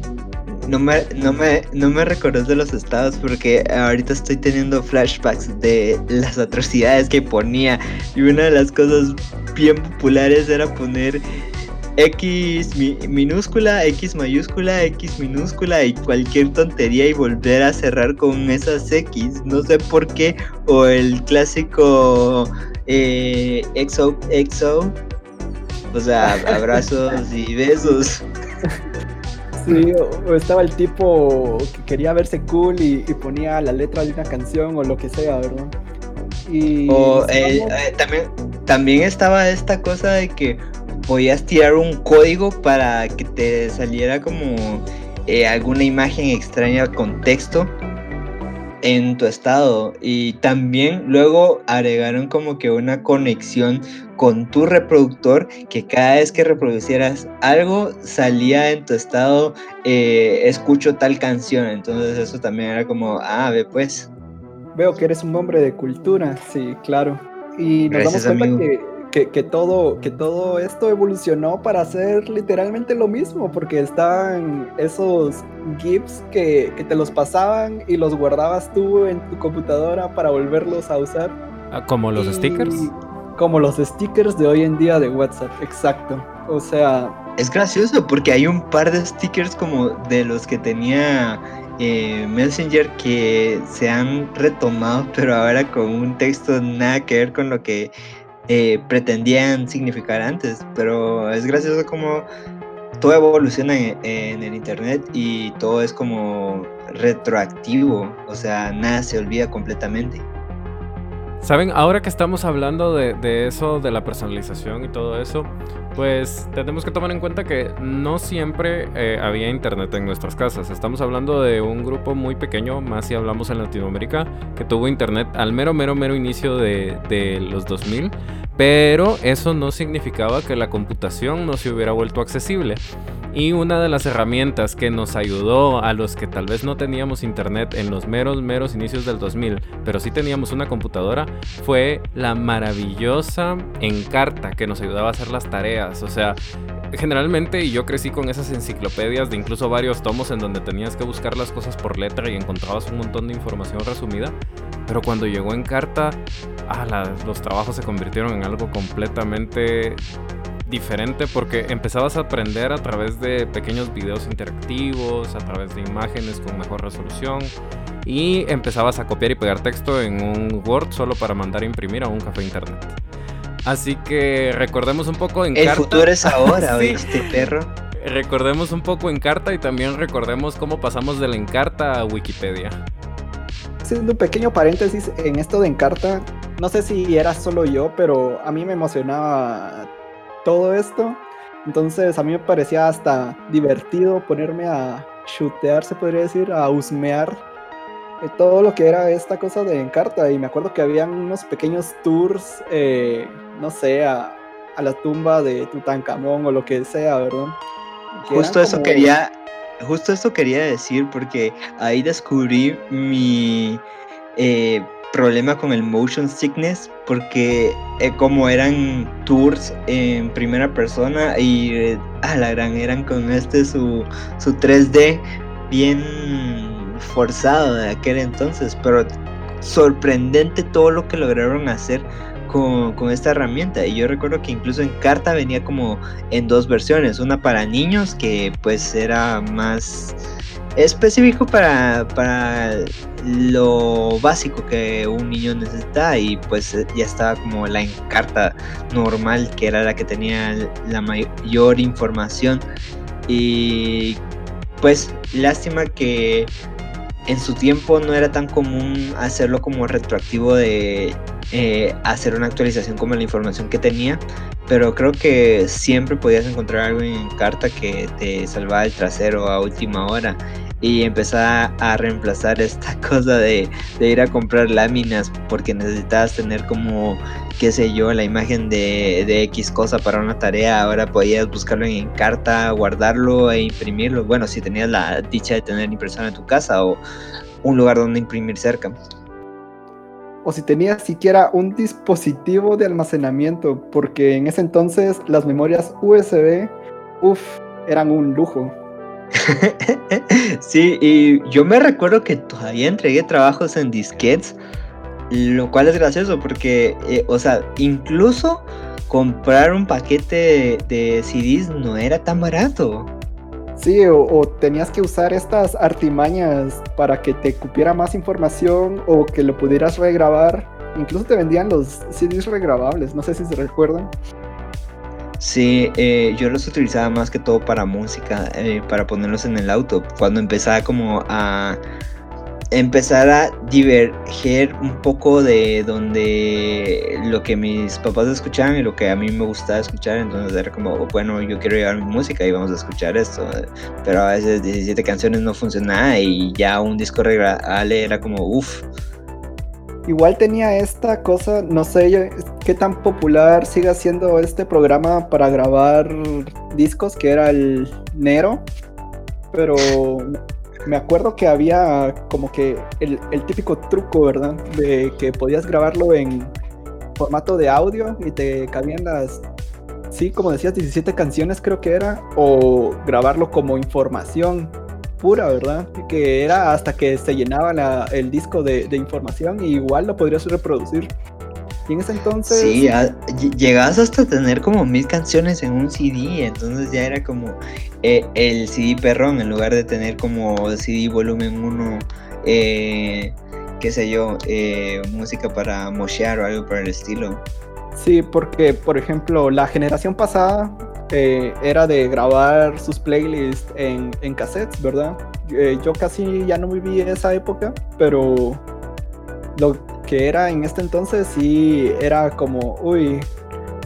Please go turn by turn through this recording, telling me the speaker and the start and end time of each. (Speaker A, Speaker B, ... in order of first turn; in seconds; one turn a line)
Speaker A: 0.5-11.2
Speaker A: 12.0-25.0
Speaker A: 25.9-28.2
Speaker B: 26.3-26.5
Speaker B: 29.6-35.7
Speaker B: 36.4-37.8
Speaker A: 36.9-47.7
Speaker A: 48.8-64.1
Speaker B: 64.7-81.4
Speaker A: 67.9-68.6
Speaker C: 81.7-82.9
Speaker B: 82.2-87.2
Speaker A: 87.4-97.9
Speaker A: 98.5-102.3
Speaker A: 103.0-110.2
Speaker C: 111.4-132.8
Speaker C: 133.3-146.4
Speaker C: 146.9-154.3
Speaker C: 154.9-160.0
Speaker C: 160.7-167.5
Speaker C: 168.0-172.9
Speaker C: 173.6-177.2
Speaker A: 175.5-177.7
Speaker C: 178.0-182.8
Speaker B: 183.8-189.9
Speaker B: 190.4-197.4
Speaker B: 198.2-207.6
Speaker A: 208.2-213.8
Speaker B: 208.2-209.1
Speaker A: 214.3-229.1
Speaker A: 229.6-240.2
Speaker A: 240.8-252.7
Speaker A: 253.3-254.2
Speaker A: 254.8-256.5
Speaker A: 257.3-287.0
Speaker A: 287.6-288.9
Speaker B: 290.4-298.8
Speaker A: 299.4-304.6
Speaker A: 305.3-313.1
Speaker B: 313.8-324.1
Speaker A: 325.4-331.8
Speaker A: 332.7-348.9
Speaker B: 350.1-358.7
Speaker B: 359.5-360.3
Speaker B: 360.8-366.5
Speaker B: 367.2-369.4
Speaker B: 370.1-381.1
Speaker B: 381.9-382.9
Speaker A: 382.5-397.4
Speaker B: 397.9-408.6
Speaker B: 409.5-413.3